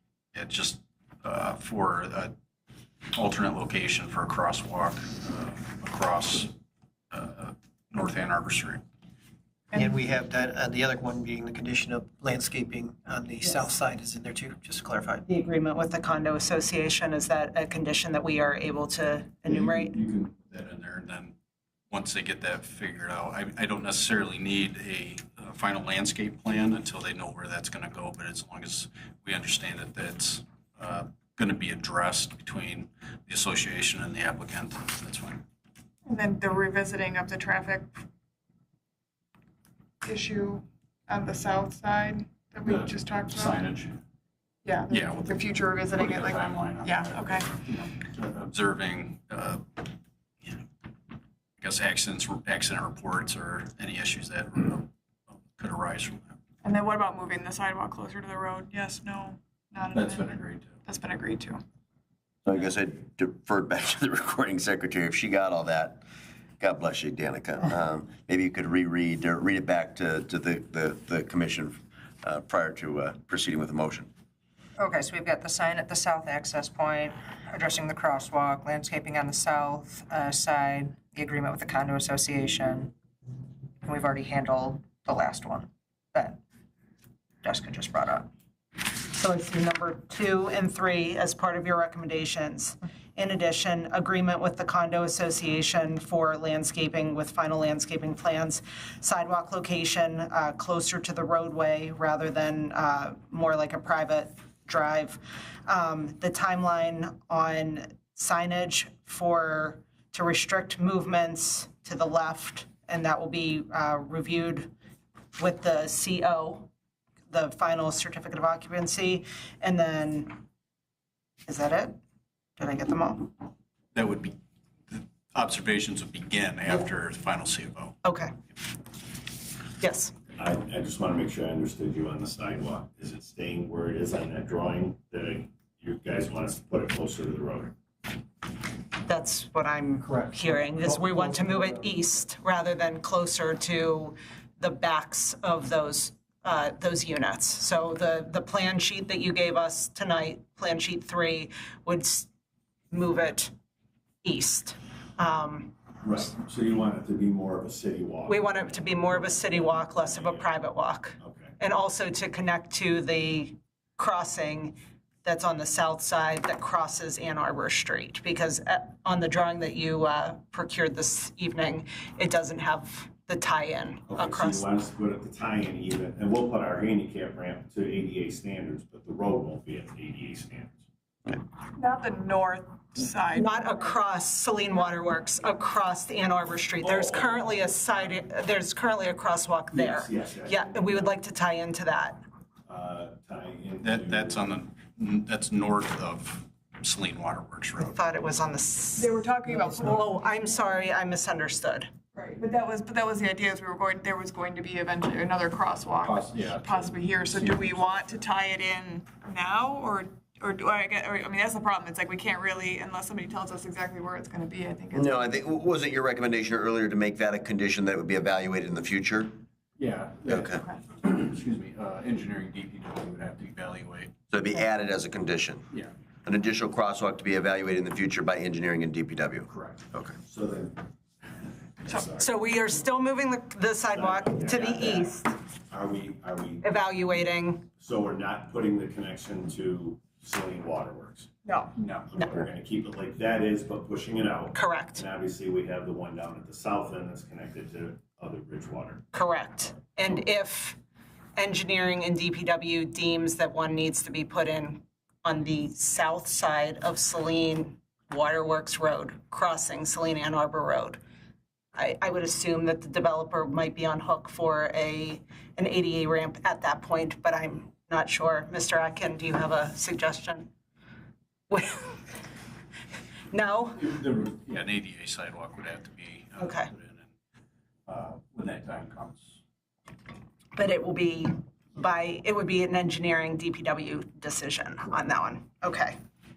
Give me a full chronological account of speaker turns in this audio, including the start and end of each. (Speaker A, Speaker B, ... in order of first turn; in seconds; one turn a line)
Speaker A: 0.3-2.3
Speaker A: 3.1-6.5
Speaker A: 7.1-8.8
Speaker B: 9.7-15.2
Speaker C: 15.3-20.0
Speaker A: 19.5-21.3
Speaker A: 21.9-35.4
Speaker D: 36.0-37.9
Speaker D: 40.0-43.6
Speaker A: 42.6-44.0
Speaker D: 44.6-47.5
Speaker A: 44.9-49.9
Speaker A: 51.6-54.9
Speaker A: 55.4-56.4
Speaker D: 56.6-61.6
Speaker A: 59.9-60.8
Speaker E: 62.4-66.0
Speaker E: 66.6-74.1
Speaker F: 74.8-82.9
Speaker F: 83.8-86.4
Speaker F: 87.4-88.3
Speaker C: 89.0-114.7
Speaker C: 115.3-116.7
Speaker C: 117.3-120.4
Speaker C: 121.5-122.0
Speaker C: 122.6-123.3
Speaker A: 123.9-124.4
Speaker A: 124.9-127.9
Speaker C: 128.0-128.3
Speaker C: 129.8-130.1
Speaker G: 130.3-137.7
Speaker C: 139.0-152.3
Speaker C: 152.9-153.5
Speaker C: 154.2-155.8
Speaker G: 156.0-160.5
Speaker C: 158.3-174.7
Speaker G: 161.2-161.6
Speaker G: 174.1-180.8
Speaker D: 181.7-184.0
Speaker C: 183.3-192.2
Speaker G: 186.8-187.8
Speaker G: 189.7-191.2
Speaker G: 192.7-194.5
Speaker A: 193.8-197.9
Speaker C: 197.8-201.9
Speaker D: 198.9-200.2
Speaker D: 202.1-215.3
Speaker A: 206.0-208.2
Speaker E: 214.9-219.3
Speaker A: 219.8-224.1
Speaker E: 220.2-220.6
Speaker E: 224.3-225.6
Speaker E: 226.2-230.2
Speaker A: 229.5-229.8
Speaker G: 230.2-230.9
Speaker G: 231.8-232.2
Speaker C: 232.2-235.3
Speaker G: 233.9-235.2
Speaker G: 235.7-236.6
Speaker C: 236.6-237.7
Speaker G: 237.7-241.3
Speaker D: 241.4-241.7
Speaker A: 241.8-242.1
Speaker G: 242.1-249.1
Speaker C: 244.5-245.0
Speaker C: 249.1-250.8
Speaker C: 251.3-261.0
Speaker C: 261.7-270.5
Speaker C: 271.5-272.1
Speaker C: 273.3-273.9
Speaker A: 273.8-277.1
Speaker C: 276.4-276.7
Speaker A: 277.9-279.4
Speaker C: 280.6-286.0